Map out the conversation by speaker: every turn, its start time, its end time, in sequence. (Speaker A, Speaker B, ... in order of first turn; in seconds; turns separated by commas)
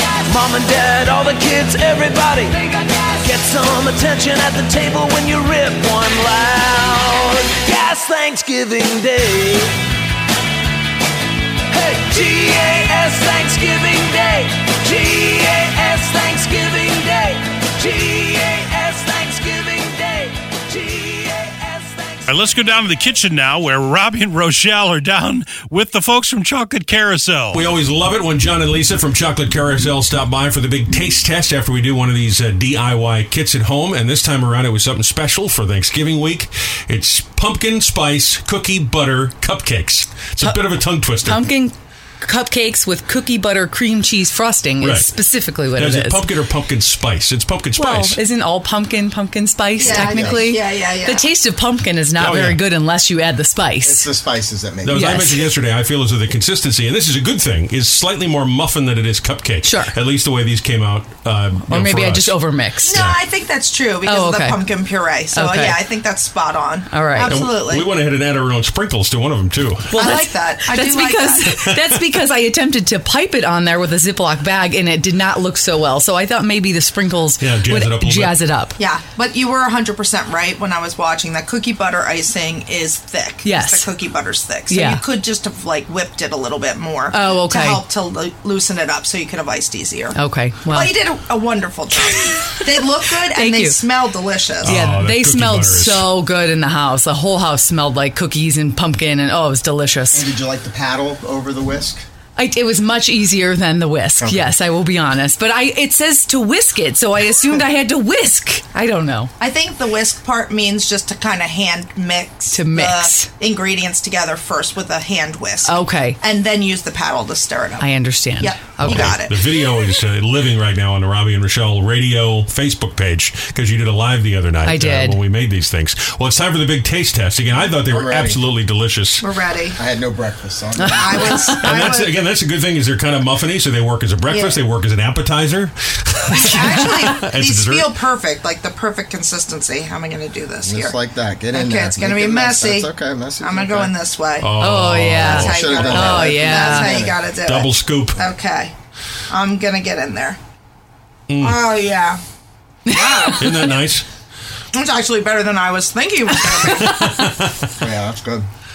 Speaker A: 22.2-27.6, Speaker B: 27.5-41.4, Speaker C: 41.2-46.2, Speaker B: 44.8-45.1, Speaker B: 45.7-48.2, Speaker C: 47.8-54.1, Speaker D: 49.8-51.3, Speaker B: 52.2-52.6, Speaker E: 53.8-55.0, Speaker B: 54.8-62.4, Speaker C: 54.9-55.5, Speaker C: 59.6-59.9, Speaker C: 61.6-63.0, Speaker D: 62.8-67.9, Speaker C: 64.0-64.6, Speaker C: 65.3-65.8, Speaker C: 66.9-67.3, Speaker B: 67.2-70.0, Speaker C: 69.9-78.7, Speaker D: 69.9-71.6, Speaker B: 71.5-71.8, Speaker B: 77.4-78.3, Speaker D: 78.8-94.8, Speaker C: 83.4-83.9, Speaker C: 84.7-85.0, Speaker C: 87.1-87.8, Speaker C: 90.1-91.0, Speaker C: 92.2-92.5, Speaker C: 93.3-93.8, Speaker C: 94.6-100.3, Speaker B: 94.6-96.0, Speaker E: 100.1-102.0, Speaker C: 102.3-109.3, Speaker E: 104.2-104.5, Speaker D: 109.4-117.8, Speaker C: 112.5-113.3, Speaker C: 115.6-116.2, Speaker C: 117.8-119.2, Speaker D: 118.4-119.4, Speaker B: 118.8-129.2, Speaker C: 124.6-125.2, Speaker E: 127.9-128.4, Speaker D: 129.2-129.8, Speaker E: 129.8-131.3, Speaker C: 130.8-131.8, Speaker D: 130.9-132.1, Speaker B: 131.6-137.9, Speaker D: 134.3-134.6, Speaker D: 136.3-141.0, Speaker E: 140.6-143.9, Speaker D: 141.5-144.5, Speaker B: 144.4-145.5, Speaker C: 144.6-146.9, Speaker D: 145.2-148.7, Speaker E: 145.4-147.2, Speaker B: 147.4-148.2, Speaker D: 149.3-150.4, Speaker B: 151.3-151.6, Speaker D: 151.4-152.2, Speaker C: 152.9-153.6, Speaker D: 152.9-153.6, Speaker B: 153.4-154.1, Speaker D: 154.7-157.1, Speaker C: 156.7-157.1, Speaker B: 156.8-157.7, Speaker E: 157.8-158.5